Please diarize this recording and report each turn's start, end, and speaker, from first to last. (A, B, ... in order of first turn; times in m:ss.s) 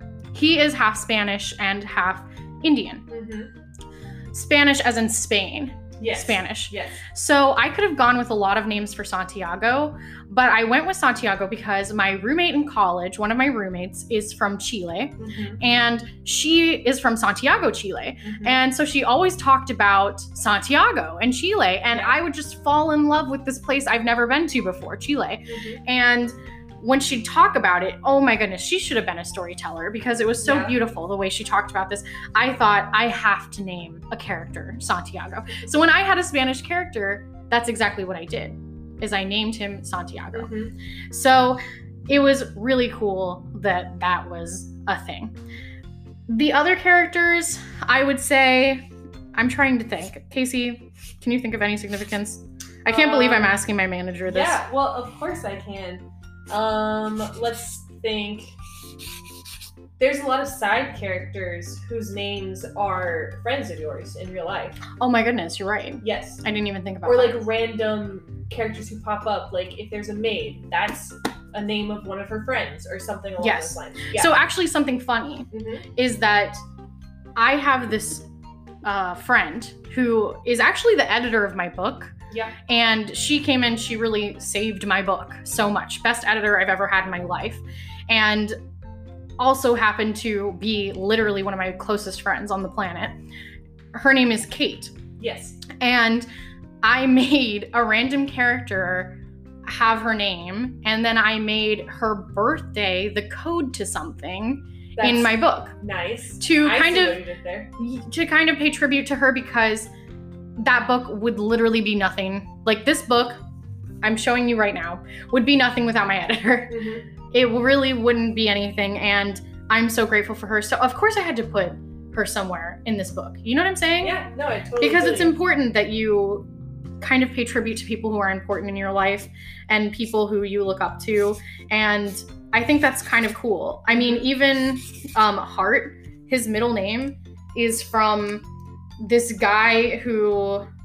0:00.3-0:03.0 A
0:03.1-0:03.5 B
0:04.3-0:40.5 A
0:06.0-0:07.0 B
0:15.2-0:15.6 B
0:18.2-0:18.6 B
0:21.9-0:22.2 B
0:25.5-0:25.8 B
0:30.4-0:30.8 B
0:40.3-0:40.8 B
0:41.1-0:45.3 A
0:46.3-0:54.6 A
0:52.9-0:53.6 B
0:54.3-0:58.6 B
1:00.0-1:04.8 B
1:05.0-1:07.5 A
1:06.0-1:06.4 B
1:07.0-1:14.3 B
1:13.4-1:16.6 A
1:15.5-1:15.9 B
1:17.4-1:18.3 A
1:18.8-1:22.1 A
1:22.3-1:22.6 B
1:22.7-1:28.6 A
1:29.4-1:33.2 A
1:33.9-1:35.0 A
1:35.2-1:35.6 B
1:35.7-1:36.3 A
1:36.8-1:45.8 A
1:45.0-1:47.7 B
1:46.4-1:47.2 A
1:47.8-1:49.9 A
1:50.6-1:53.4 A
1:54.0-1:56.8 A
1:56.7-1:57.1 B
1:57.3-2:04.2 A
2:04.0-2:05.4 B
2:04.8-2:06.5 A
2:07.0-2:18.4 A
2:14.0-2:14.2 B
2:19.0-2:20.7 A